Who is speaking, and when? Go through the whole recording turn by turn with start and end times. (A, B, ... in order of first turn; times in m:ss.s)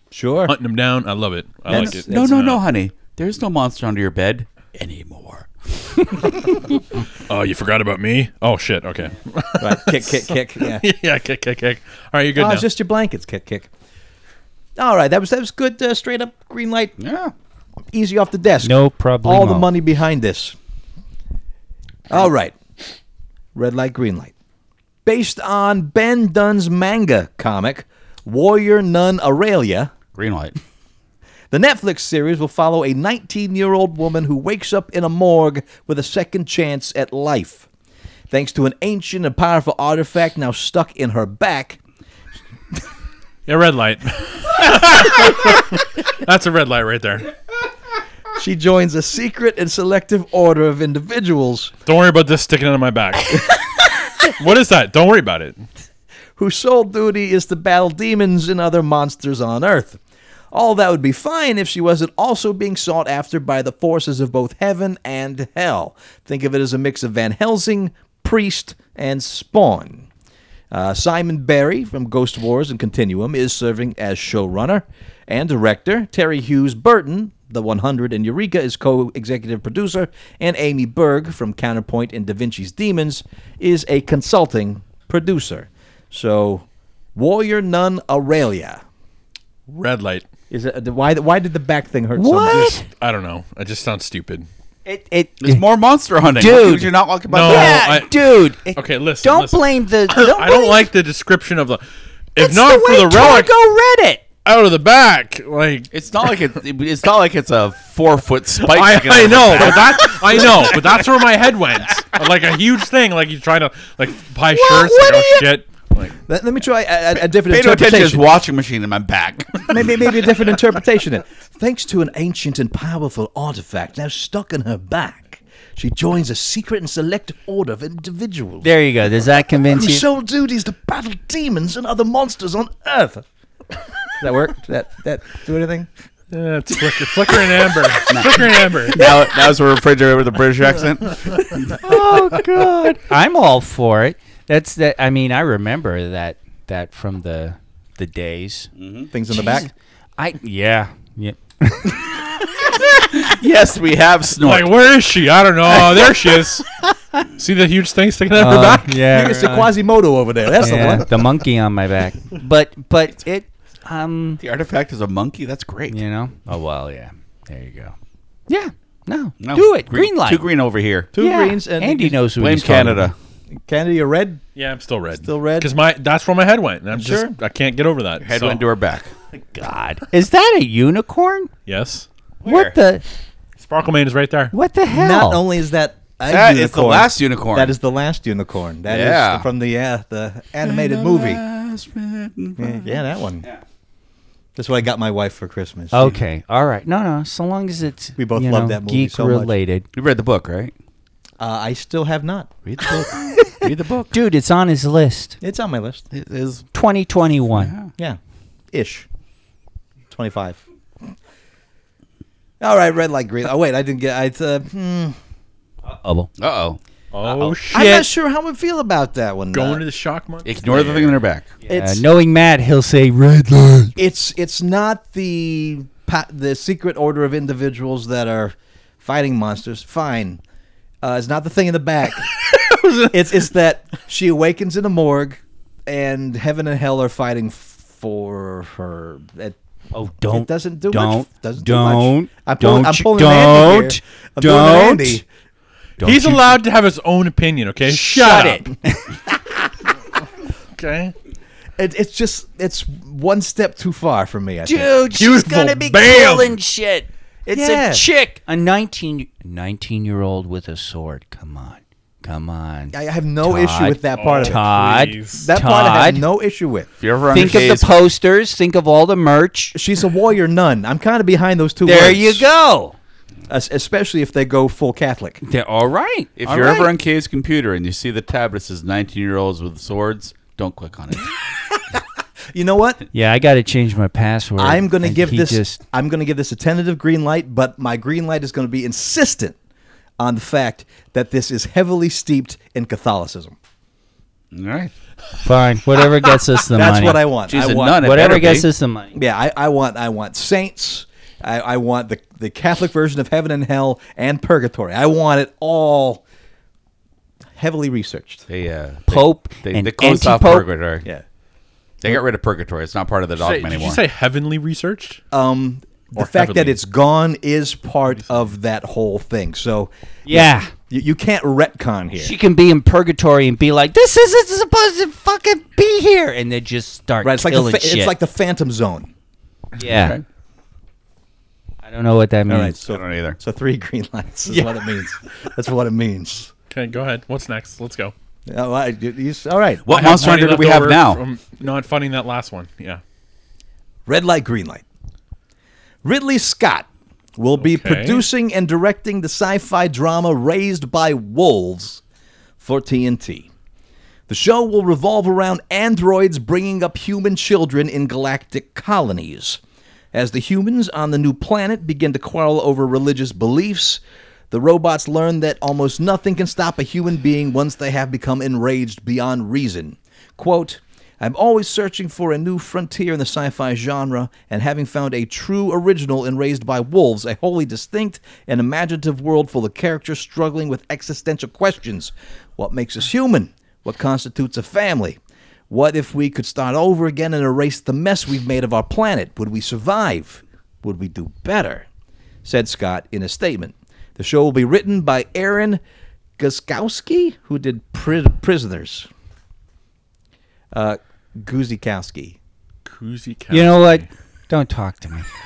0:00.1-0:00.5 A
0:00.4-0:02.6 B
0:01.7-0:02.3 A
0:01.7-0:06.6 C
0:07.3-0:12.6 B
0:09.6-0:10.8 A
0:12.4-0:13.7 A
0:14.8-0:17.0 A
0:17.0-0:17.3 C
0:17.9-0:20.6 A
0:18.6-0:19.7 D
0:22.1-0:22.6 A
0:23.6-0:24.3 A
0:25.1-0:29.9 A
0:30.1-0:30.6 C
0:31.5-0:37.7 A
0:38.3-0:41.8 A
0:43.5-0:47.3 B
0:48.4-0:51.7 A
0:51.9-0:53.5 B
0:54.2-0:55.6 B
0:56.4-1:00.0 A
1:00.5-1:10.1 A
1:10.7-1:28.8 A
1:29.7-1:30.3 B
1:30.5-1:32.8 A
1:32.2-1:32.9 D
1:33.0-1:34.5 B
1:34.9-1:35.6 D
1:35.4-1:37.8 C
1:36.3-1:40.9 D
1:37.3-1:41.8 B
1:42.4-1:43.5 B
1:42.4-1:44.2 D
1:44.4-1:45.9 B
1:45.9-1:51.0 C
1:48.6-1:56.2 B
1:54.7-1:55.4 D
1:56.3-1:58.4 A
1:57.4-2:00.1 C
1:59.7-2:08.7 A
2:08.6-2:10.0 D
2:09.7-2:13.2 A
2:14.2-2:15.9 A
2:16.3-2:19.2 B
2:18.1-2:21.9 C
2:21.8-2:28.7 D
2:28.8-2:29.1 C
2:29.1-2:29.7 A
2:29.3-2:32.1 D
2:33.0-2:34.7 C
2:34.4-2:36.7 B
2:35.7-2:36.1 D
2:36.8-2:37.3 D
2:37.4-2:38.9 B
2:38.4-2:39.7 D
2:39.0-2:41.3 A
2:40.6-2:44.4 D
2:44.4-2:46.0 C
2:45.9-2:47.9 D
2:48.5-2:50.4 D
2:49.4-2:51.1 C
2:51.1-2:52.2 A
2:51.2-2:53.1 D
2:52.4-2:53.1 C
2:53.7-2:54.4 A
2:54.6-2:58.6 B
2:55.1-2:55.7 A
2:56.9-2:57.3 A
2:58.2-2:59.1 C
2:59.5-3:01.5 D
3:01.7-3:02.1 B
3:02.4-3:02.7 C
3:02.4-3:03.0 D
3:03.6-3:04.5 B
3:04.5-3:05.4 D
3:04.9-3:11.4 A
3:06.3-3:07.7 C
3:08.9-3:09.4 C
3:10.6-3:13.6 C
3:12.6-3:13.5 A
3:14.6-3:16.2 A
3:15.9-3:19.9 D
3:18.2-3:19.6 A
3:19.9-3:20.7 C
3:21.4-3:22.5 A
3:22.6-3:24.2 C
3:23.0-3:25.4 D
3:25.4-3:26.1 A
3:26.1-3:26.6 C
3:26.7-3:27.7 D
3:27.6-3:27.9 C
3:28.7-3:29.1 A
3:30.1-3:30.6 A
3:32.6-3:35.2 A
3:35.9-3:36.3 D
3:36.4-3:36.8 C
3:37.1-3:38.1 B
3:37.7-3:39.8 A
3:39.5-3:41.1 B
3:40.4-3:41.6 C
3:40.8-3:41.0 A
3:41.6-3:43.9 D
3:41.7-3:42.0 A
3:44.0-3:50.4 A
3:51.0-3:52.3 A
3:52.3-3:53.2 B
3:53.1-3:59.6 A
3:59.9-4:05.2 D
4:00.3-4:05.2 A
4:06.0-4:06.5 D
4:06.0-4:08.6 B
4:07.9-4:09.1 D
4:10.7-4:11.1 B
4:11.8-4:14.9 A
4:14.6-4:26.2 D
4:15.2-4:16.6 B
4:17.5-4:18.0 A
4:22.9-4:24.6 A
4:24.2-4:25.4 B
4:25.3-4:27.6 A
4:27.0-4:28.0 C
4:27.3-4:29.8 D
4:29.7-4:32.4 A
4:31.8-4:33.0 D
4:33.5-4:35.4 A
4:35.4-4:36.9 D
4:36.4-4:41.3 C
4:41.9-4:43.0 A
4:43.1-4:45.8 D
4:44.6-4:49.6 A
4:50.2-4:53.6 A
4:54.5-4:54.9 C
4:55.4-4:57.3 D
4:56.7-4:58.3 A
4:57.5-4:58.7 C
4:57.9-4:59.2 D
4:59.1-5:06.2 A
5:07.6-5:08.4 A
5:08.5-5:11.1 C
5:09.1-5:10.7 D
5:12.0-5:14.0 C
5:13.4-5:15.2 B
5:15.3-5:22.3 A
5:16.2-5:16.8 B
5:20.3-5:20.7 D
5:22.2-5:28.2 D
5:27.2-5:29.1 A
5:29.8-5:30.2 D
5:29.8-5:30.2 C
5:31.8-5:32.8 D
5:32.5-5:36.5 A
5:32.9-5:33.4 C
5:34.5-5:34.7 D
5:36.7-5:38.1 B
5:38.5-5:39.9 A
5:39.8-5:41.2 C
5:39.9-5:43.0 B
5:44.1-5:44.8 A
5:46.0-5:52.0 A
5:47.6-5:48.2 B
5:52.6-5:53.5 A
5:54.3-5:59.6 A
6:00.1-6:25.2 A
6:25.7-6:31.9 A
6:32.4-6:35.8 A
6:36.4-6:39.1 A
6:40.7-6:42.4 A
6:42.9-6:44.1 B
6:43.5-6:45.3 D